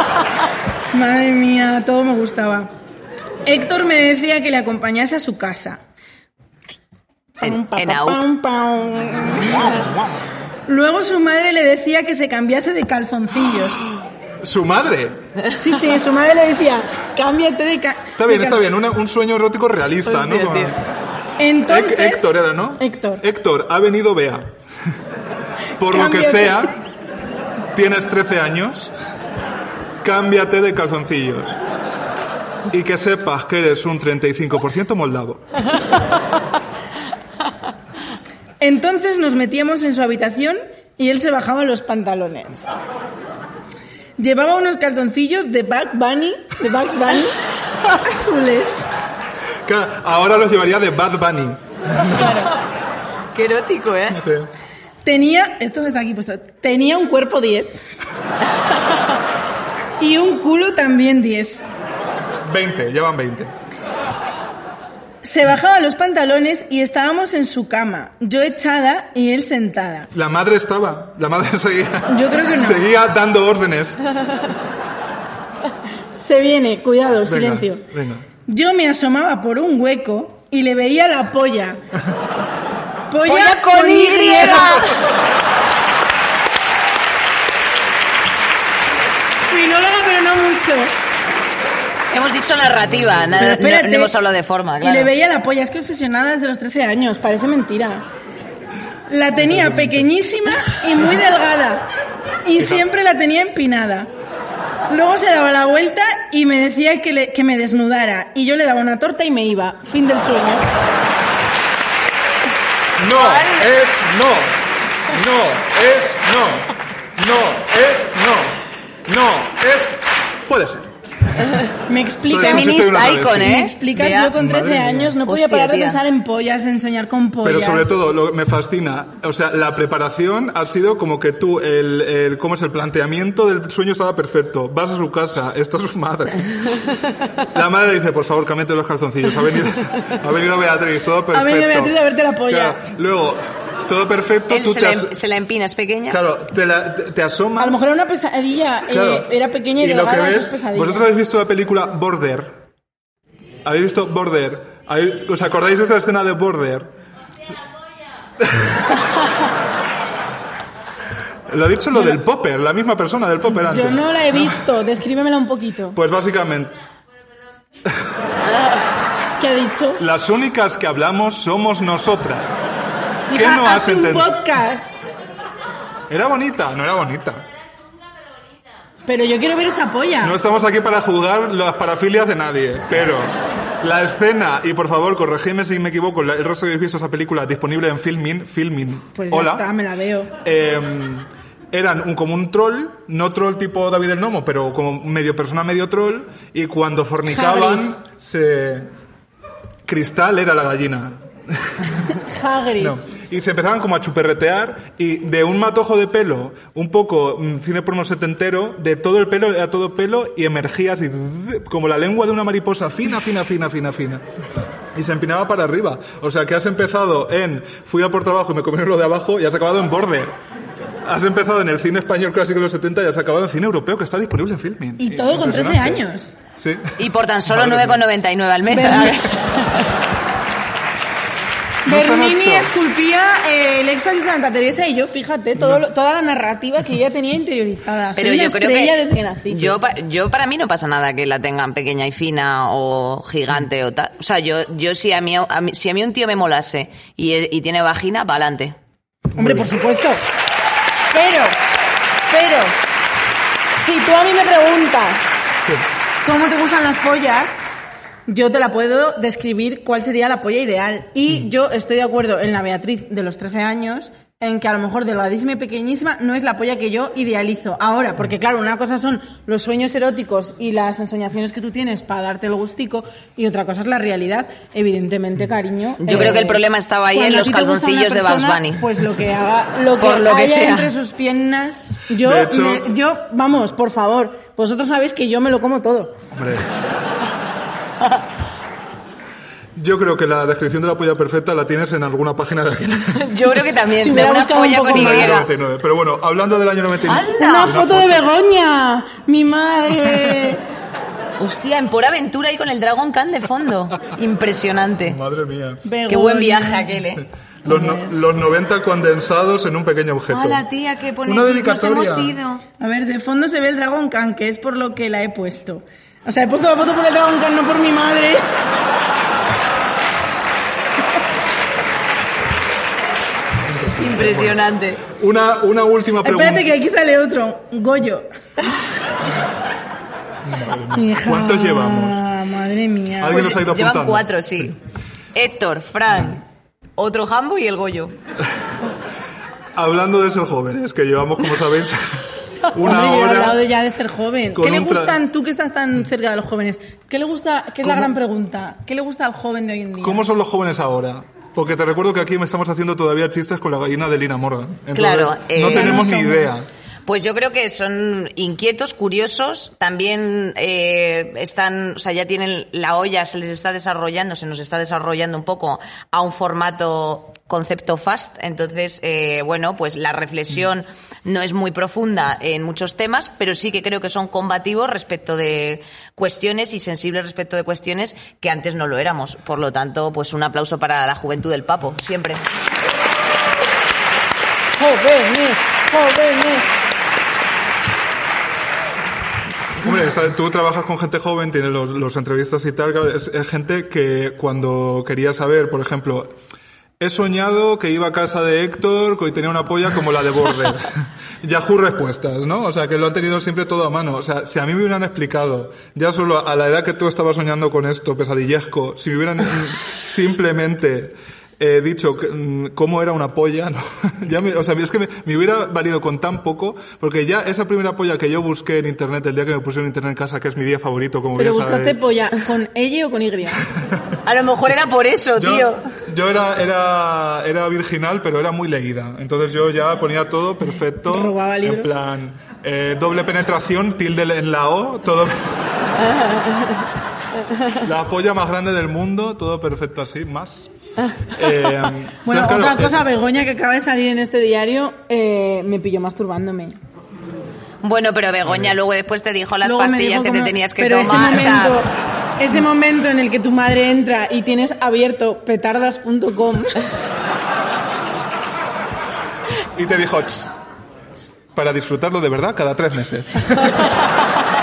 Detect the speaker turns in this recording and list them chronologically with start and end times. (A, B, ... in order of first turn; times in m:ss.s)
0:00.9-0:02.7 A
0:03.4-0:05.8 A
0:07.4-0:09.8 A
0:07.4-0:08.2 B
0:09.5-0:10.0 C
0:10.7-0:13.9 A
0:14.4-0:15.2 C
0:15.5-0:18.6 A
0:18.2-0:20.8 C
0:20.1-0:20.7 B
0:21.4-0:23.2 A
0:21.7-0:24.5 C
0:25.8-0:26.8 C
0:25.8-0:26.7 A
0:27.7-0:28.9 C
0:30.0-0:31.6 C
0:32.7-0:35.5 C
0:38.6-0:42.7 A
0:44.2-0:48.9 A
0:49.7-0:52.2 C
0:51.9-0:52.5 A
0:53.3-0:54.2 B
0:54.1-0:54.5 C
0:55.0-0:57.8 A
1:00.0-1:01.6 A
1:02.4-1:03.5 C
1:05.2-1:10.1 A
1:10.1-1:14.0 C
1:12.1-1:12.8 A
1:16.2-1:17.8 A
1:17.2-1:18.3 C
1:18.5-1:21.8 A
1:23.1-1:25.0 A
1:23.3-1:25.0 B
1:29.4-1:30.9 A
1:32.1-1:35.1 B
1:32.9-1:33.5 C
1:33.4-1:34.1 A
1:34.8-1:38.1 A
1:39.1-1:41.9 A
1:39.4-1:40.1 C
1:42.4-1:44.1 A
1:42.6-1:42.8 C
1:44.9-1:50.7 A
1:53.0-2:00.9 C
1:53.2-1:53.7 B
2:01.9-2:08.0 A
2:02.3-2:03.6 C
2:02.4-2:04.4 B
2:04.3-2:05.2 C
2:05.2-2:06.0 B
2:07.4-2:16.8 C
2:17.4-2:22.0 C
2:21.3-2:22.8 A
2:22.5-2:25.1 C
2:24.5-2:26.2 B
2:26.1-2:27.8 C
2:27.6-2:31.1 A
2:28.9-2:29.3 C
2:29.8-2:32.6 C
2:33.6-2:36.9 C
2:38.4-2:38.7 C
2:41.5-2:44.6 C
2:43.5-2:46.0 A
2:46.0-2:46.7 C
2:49.4-2:50.0 A
2:50.0-2:52.6 C
2:53.3-2:55.0 A
2:53.3-2:54.3 C
2:56.1-2:57.4 C
2:59.1-3:00.4 A
3:00.2-3:09.7 C
3:09.2-3:10.3 A
3:10.4-3:18.9 C
3:17.3-3:18.0 A
3:19.9-3:22.0 C
3:22.2-3:23.0 A
3:22.8-3:34.2 C
3:35.0-3:40.4 C
3:41.0-3:46.0 C
3:45.0-3:46.4 A
3:46.6-3:47.0 C
3:47.0-3:49.9 B
3:47.5-3:48.0 C
3:48.7-3:49.7 A
3:51.8-3:59.8 A
3:51.9-3:52.7 C
3:58.2-3:59.0 B
3:59.5-4:08.8 B
4:09.3-4:09.7 C
4:09.4-4:10.2 A
4:11.1-4:11.6 A
4:12.3-4:12.8 A
4:13.7-4:15.4 A
4:16.2-4:17.7 A
4:18.3-4:36.6 A
4:36.0-4:38.9 B
4:37.1-4:46.2 A
4:40.0-4:40.9 B
4:42.2-4:42.9 C
4:46.3-4:46.7 C
4:49.8-4:53.3 C
4:53.1-4:55.6 B
4:54.0-4:55.5 A
4:54.9-4:58.2 C
4:57.0-4:57.8 B
4:57.4-5:00.6 A
5:01.4-5:05.2 B
5:05.0-5:05.8 C
5:05.8-5:06.9 A
5:06.1-5:07.3 B
5:07.6-5:08.3 A
5:07.6-5:10.6 C
5:10.3-5:12.6 B
5:11.2-5:12.4 C
5:12.8-5:18.6 A
5:23.6-5:26.7 C
5:24.0-5:25.0 B
5:26.2-5:28.3 A
5:30.4-5:32.2 C
5:30.9-5:33.4 A
5:33.2-5:34.7 C
5:33.3-5:34.8 B
5:35.4-5:36.4 B
5:37.0-5:38.1 B
5:39.8-5:43.6 C
5:42.8-5:50.2 A
5:44.5-5:45.2 C
5:47.8-5:48.1 C
5:50.0-5:56.7 C
5:54.9-5:56.0 B
5:55.6-5:56.6 A
5:57.1-6:22.4 B
6:24.8-6:26.8 A
6:29.8-6:36.3 C
6:37.0-7:02.0 C
7:01.4-7:03.7 A
7:04.2-7:05.8 B
7:05.4-7:15.6 C
7:11.1-7:11.9 A
7:16.2-7:16.7 B
7:17.8-7:20.7 C
7:21.3-7:23.1 C
7:22.2-7:26.8 A
7:27.8-7:31.8 B
7:29.6-7:36.8 A
7:39.7-7:40.6 C
7:41.6-7:43.9 C